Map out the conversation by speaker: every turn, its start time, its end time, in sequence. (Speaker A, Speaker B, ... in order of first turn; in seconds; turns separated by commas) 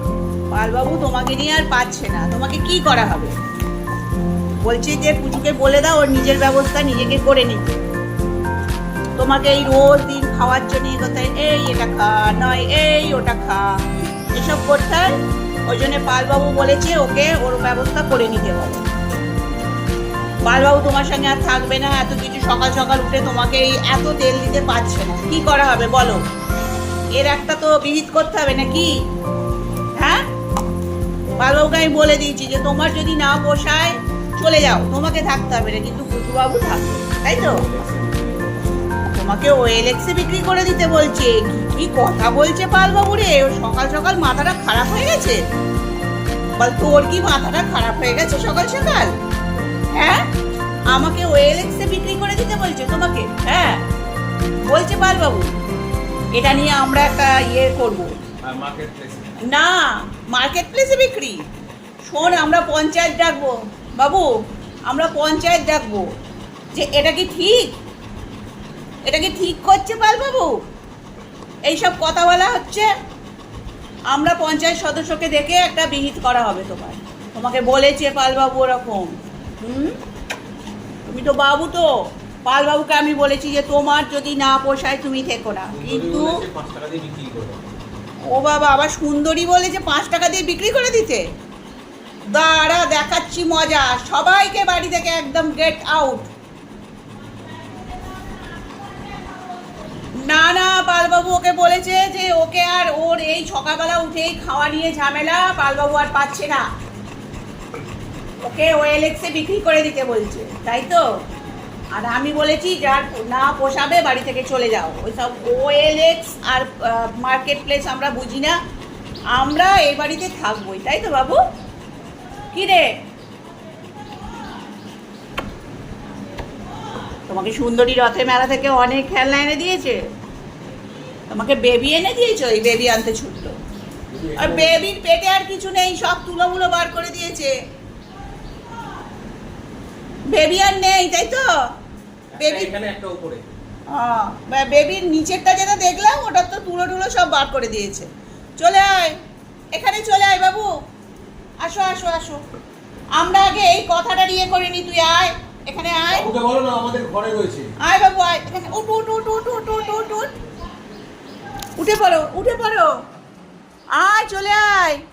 Speaker A: 0.5-3.4, Speaker A: 4.6-7.8, Speaker A: 9.2-13.8, Speaker A: 14.3-15.2, Speaker A: 15.7-18.9, Speaker A: 20.5-26.2, Speaker A: 27.1-28.9, Speaker A: 30.0-30.2, Speaker A: 31.4-37.6, Speaker B: 37.2-38.9, Speaker A: 39.1-45.4, Speaker A: 46.6-49.1, Speaker A: 50.0-50.3, Speaker A: 50.9-53.8, Speaker A: 54.7-55.5, Speaker A: 56.3-58.1, Speaker B: 58.4-59.4, Speaker A: 59.5-61.4, Speaker A: 62.1-64.3, Speaker B: 62.2-62.5, Speaker A: 64.9-66.1, Speaker A: 66.7-67.8, Speaker A: 69.1-70.6, Speaker A: 71.7-72.9, Speaker A: 74.1-80.0, Speaker A: 81.1-81.9, Speaker A: 82.5-86.4, Speaker B: 85.7-87.7, Speaker A: 88.3-91.2, Speaker A: 92.3-96.3, Speaker A: 100.2-106.7, Speaker A: 108.4-111.0, Speaker A: 112.0-118.6, Speaker A: 119.3-121.4, Speaker A: 122.5-122.9, Speaker A: 127.3-130.0, Speaker A: 131.3-133.6, Speaker B: 134.1-134.8, Speaker A: 134.4-137.5, Speaker A: 140.3-141.5, Speaker B: 142.3-143.4, Speaker A: 142.4-142.7, Speaker A: 143.9-148.1, Speaker A: 148.6-149.2, Speaker A: 149.7-150.7, Speaker A: 151.6-152.4, Speaker A: 153.2-156.3, Speaker B: 156.1-157.7, Speaker A: 157.8-160.3, Speaker A: 161.8-162.9, Speaker A: 164.0-165.0